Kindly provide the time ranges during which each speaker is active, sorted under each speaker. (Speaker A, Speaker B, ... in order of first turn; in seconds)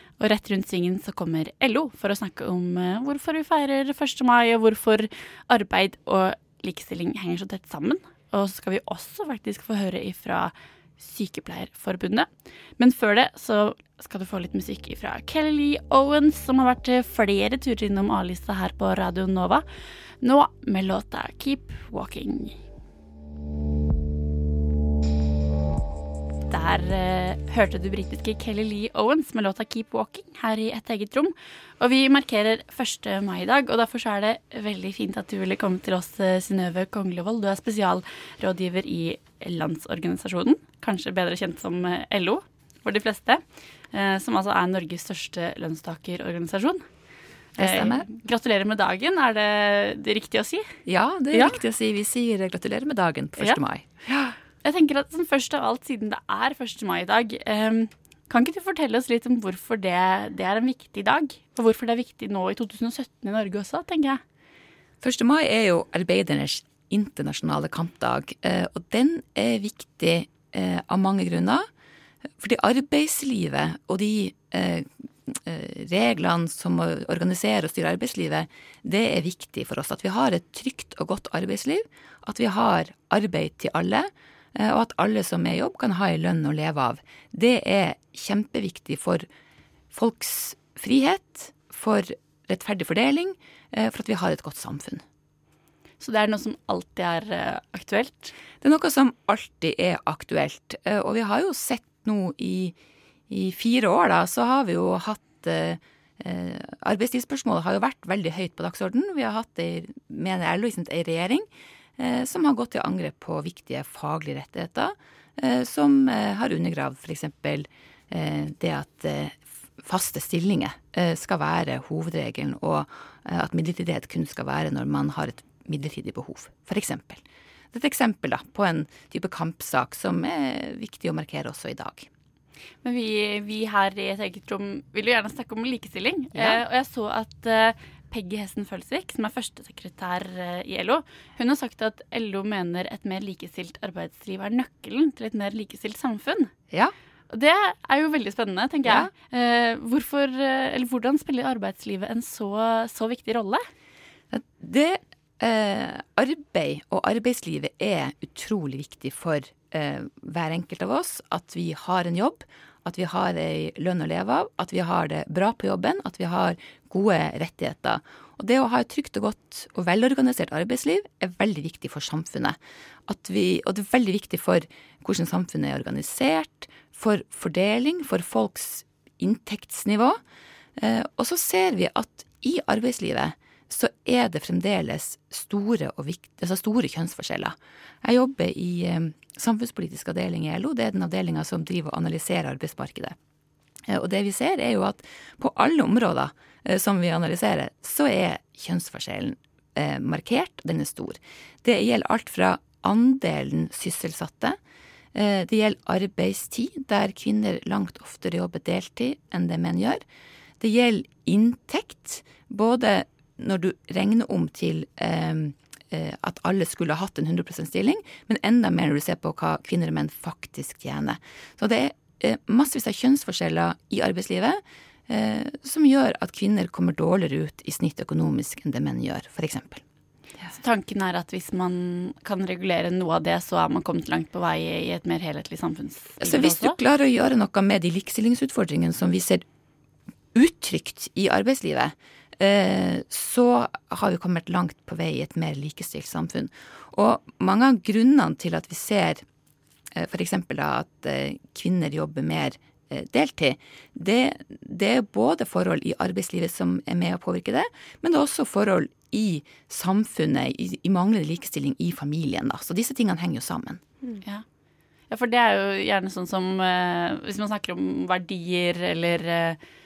Speaker A: 0.2-19.6, 20.2-22.6, 26.5-46.8, 47.6-50.7, 51.3-51.6, 54.6-64.2, 96.0-98.3, 132.8-146.5, 147.3-153.7, 230.6-236.8, 265.1-269.6
Speaker B: 47.6-48.1, 50.9-54.4, 65.0-71.7, 72.4-89.2, 89.9-95.0, 98.6-102.8, 103.3-111.5, 112.0-132.1, 136.3-136.6, 148.8-149.1, 154.3-180.2, 180.8-193.2, 193.9-204.6, 205.1-210.0, 210.6-229.8, 236.2-239.4, 240.3-249.2, 249.9-263.8